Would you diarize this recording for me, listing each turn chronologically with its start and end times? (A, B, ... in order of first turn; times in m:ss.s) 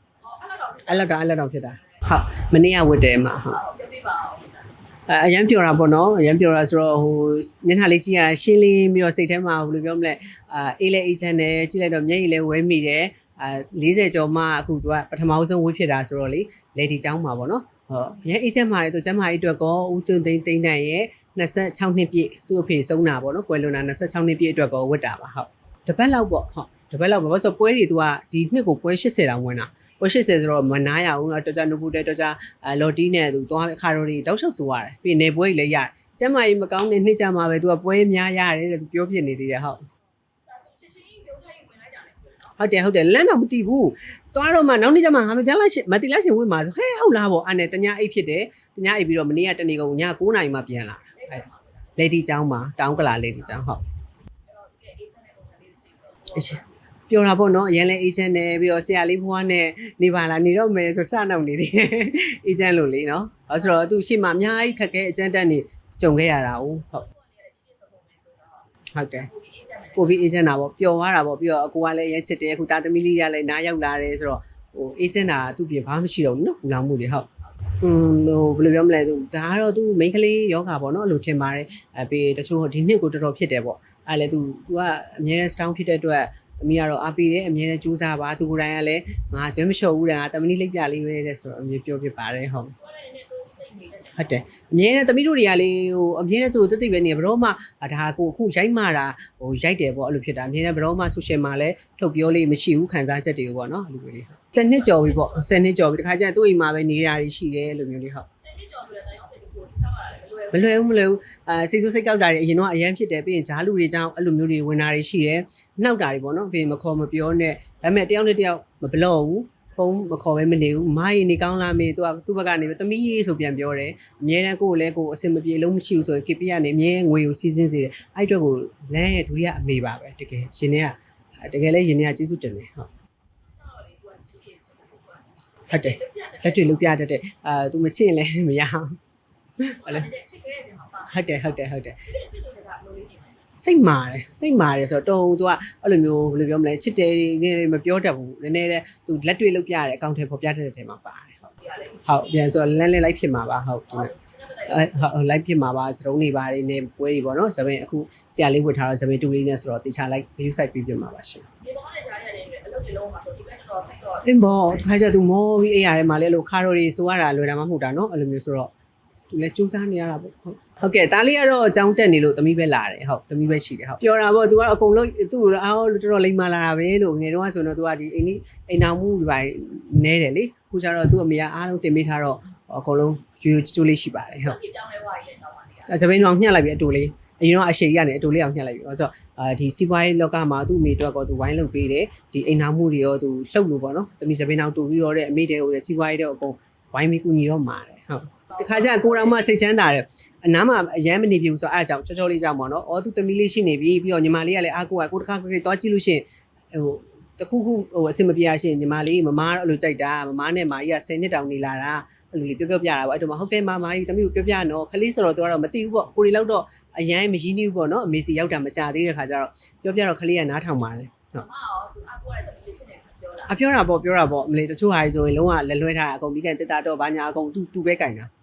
0:00.2-0:02.0 A
0:00.9-0:03.6 B
0:03.4-0:04.7 A
0:05.1-0:39.8 B
0:40.5-0:42.6 A
0:42.6-0:51.4 B
0:51.2-0:52.0 A
0:52.0-0:53.8 B
0:54.5-0:56.7 A
0:56.3-1:07.1 B
1:07.0-1:10.4 A
1:08.9-1:09.3 B
1:10.0-1:17.3 B
1:17.4-1:17.8 A
1:17.8-1:32.7 B
1:32.8-1:34.4 A
1:34.2-1:48.3 B
1:44.6-1:45.6 A
1:48.4-1:51.0 A
1:50.5-2:12.9 B
2:13.4-2:16.8 A
2:15.7-2:19.0 B
2:19.6-2:20.1 B
2:19.7-2:23.4 A
2:21.1-2:22.0 B
2:23.6-2:31.5 B
2:31.6-2:32.5 A
2:32.1-2:34.1 B
2:33.9-2:35.1 A
2:34.7-2:41.5 B
2:41.6-2:44.3 A
2:44.2-2:48.7 B
2:49.3-3:04.6 B
3:04.4-3:06.0 A
3:05.9-3:41.4 B
3:18.5-3:19.5 A
3:41.4-3:43.6 A
3:43.5-3:48.3 B